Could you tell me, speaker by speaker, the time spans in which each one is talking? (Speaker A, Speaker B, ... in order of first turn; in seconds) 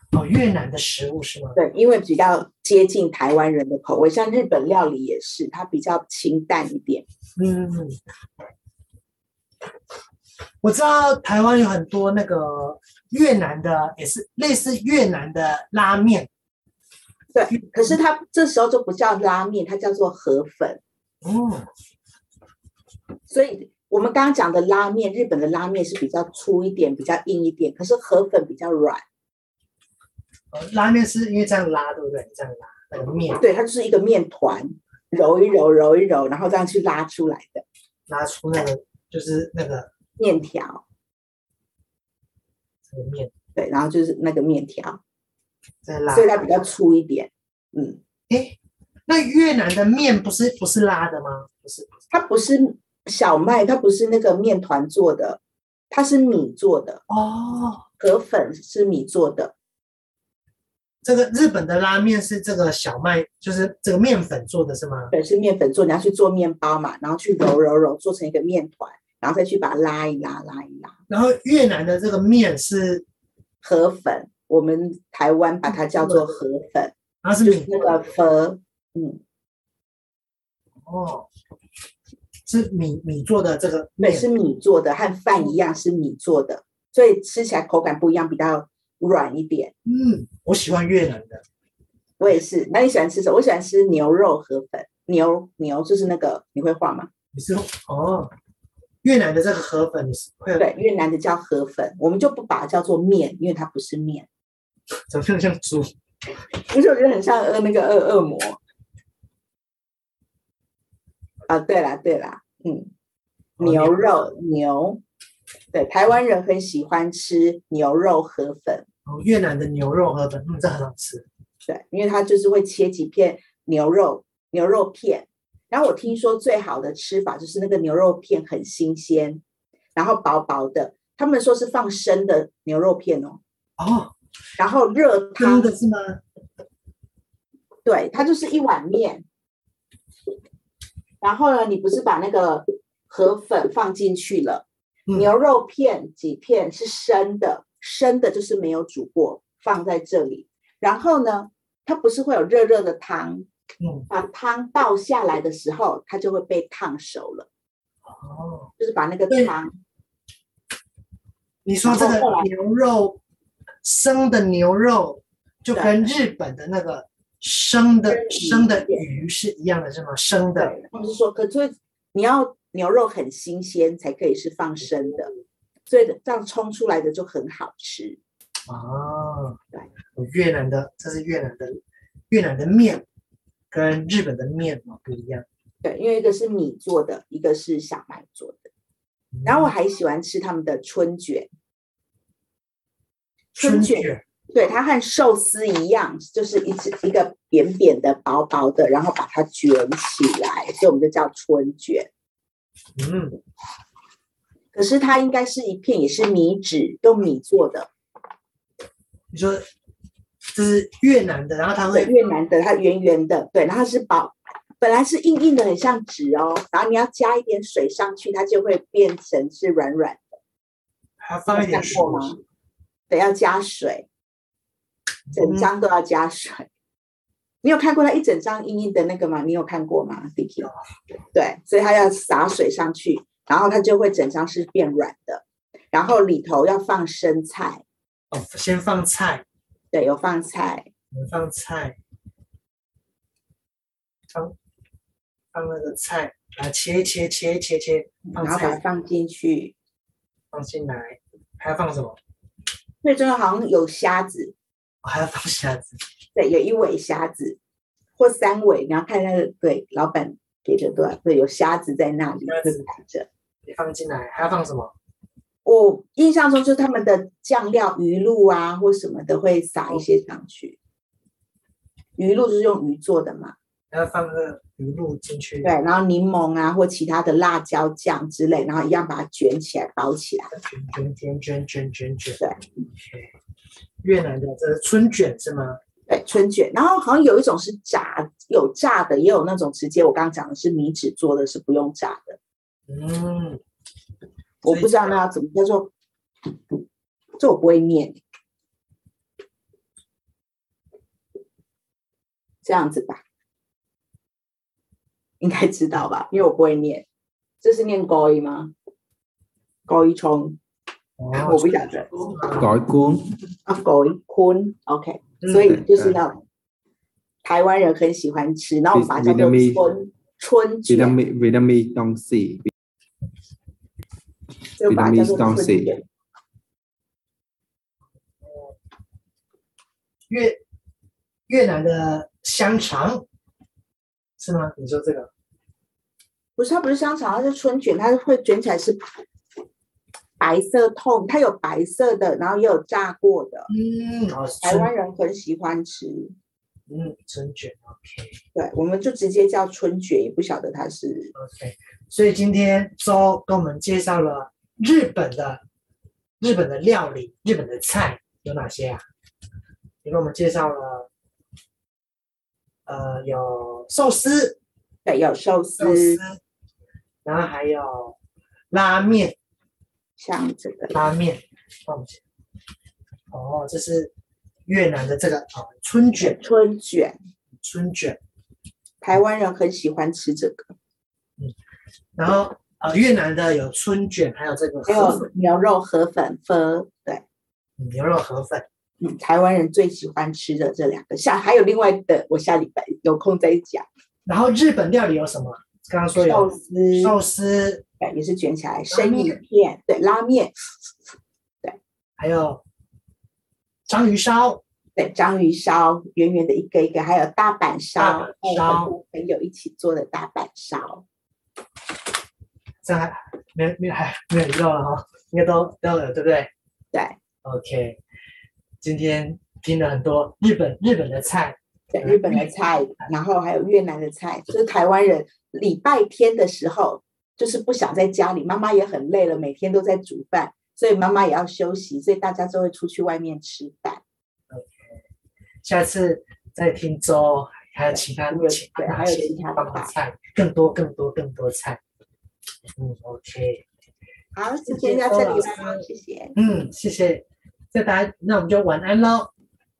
Speaker A: 0.1-1.6, 7.4-8.0, 10.6-16.3, 21.2-21.6, 30.5-33.4, 38.1-39.9, 42.9-43.3, 45.8-46.3, 48.3-48.5, 49.1-51.9, 57.1-57.8, 61.0-65.1, 71.1-73.0, 76.0-76.3, 77.2-78.0, 80.8-81.3, 82.5-84.3, 89.8-91.4, 97.3-98.3, 99.0-100.6, 105.1-105.9, 113.6-114.3, 119.0-121.2, 133.8-134.1, 135.4-136.2, 153.8-154.1, 158.0-158.7, 161.6-163.2, 163.8-170.7, 178.7-179.6, 180.1-183.0, 183.7-185.4, 189.3-189.7, 193.6-194.2, 202.9-203.4, 209.3-209.6, 210.5-212.1, 221.2-222.4, 225.3-225.7, 238.3-239.4, 241.1-242.0, 245.5-248.8, 250.5-252.2, 255.0-256.0, 262.5-262.8, 263.6-264.9, 273.9-275.7, 280.5-283.3, 284.0-285.8, 292.9-293.6, 294.6-295.1, 311.2-312.7, 315.4-315.8, 328.4-328.7, 330.3-330.6, 331.5-333.2, 334.4-335.3, 343.7-344.9, 346.9-348.4, 351.4-355.6, 356.4-359.0, 360.0-361.1, 362.9-364.6, 365.8-366.4, 367.2-368.1, 368.7-369.4, 370.9-372.2, 373.3-374.1, 374.7-376.4, 377.6-378.2, 382.1-385.3, 387.8-388.6, 394.3-397.8, 398.9-399.4, 402.2-402.6, 403.9-404.6, 408.0-408.9, 412.8-416.5, 417.4-418.0, 418.8-422.5, 434.5-434.9, 435.6-441.8, 442.8-443.6, 444.7-445.8, 446.4-449.3
Speaker B: 1.5-7.0, 17.3-20.8, 23.3-29.0, 33.3-37.6, 40.2-40.8, 43.5-45.0, 46.1-48.0, 52.1-55.4, 55.9-57.0, 58.0-59.5, 65.1-71.0, 73.6-79.2, 84.0-89.7, 92.2-97.1, 100.6-104.3, 106.6-108.6, 111.5-112.9, 113.6-115.0, 115.7-118.8, 121.7-129.4, 129.9-133.4, 134.6-135.7, 137.8-139.2, 141.2-153.5, 154.1-157.5, 158.8-159.8, 161.8-162.5, 165.7-166.1, 168.1-169.0, 170.6-175.3, 175.9-178.2, 185.8-188.7, 189.4-191.5, 193.6-202.1, 204.7-207.9, 211.9-220.4, 221.5-222.4, 223.1-224.1, 225.3-226.7, 227.6-230.7, 231.3-237.8, 239.9-240.9, 248.3-249.7, 253.0-254.5, 256.3-257.6, 258.2-263.3, 265.6-270.8, 272.2-273.5, 275.6-280.5, 286.1-292.4, 294.6-295.9, 297.4-298.2, 302.6-303.2, 305.4-307.1, 307.6-308.7, 309.9-310.6, 311.4-312.1, 313.7-316.4, 317.4-321.2, 324.8-326.0, 336.6-339.0, 340.4-343.7, 344.6-346.3, 348.5-351.3, 365.0-366.2, 370.2-370.9, 376.2-377.2, 379.0-380.7, 384.9-387.2, 389.0-393.9, 396.1-397.1, 398.0-400.5, 405.0-411.0, 421.9-434.0, 437.9-439.9, 444.3-446.4
Speaker C: 312.5-313.3, 315.8-316.1, 318.9-319.9, 320.9-322.7, 324.9-325.9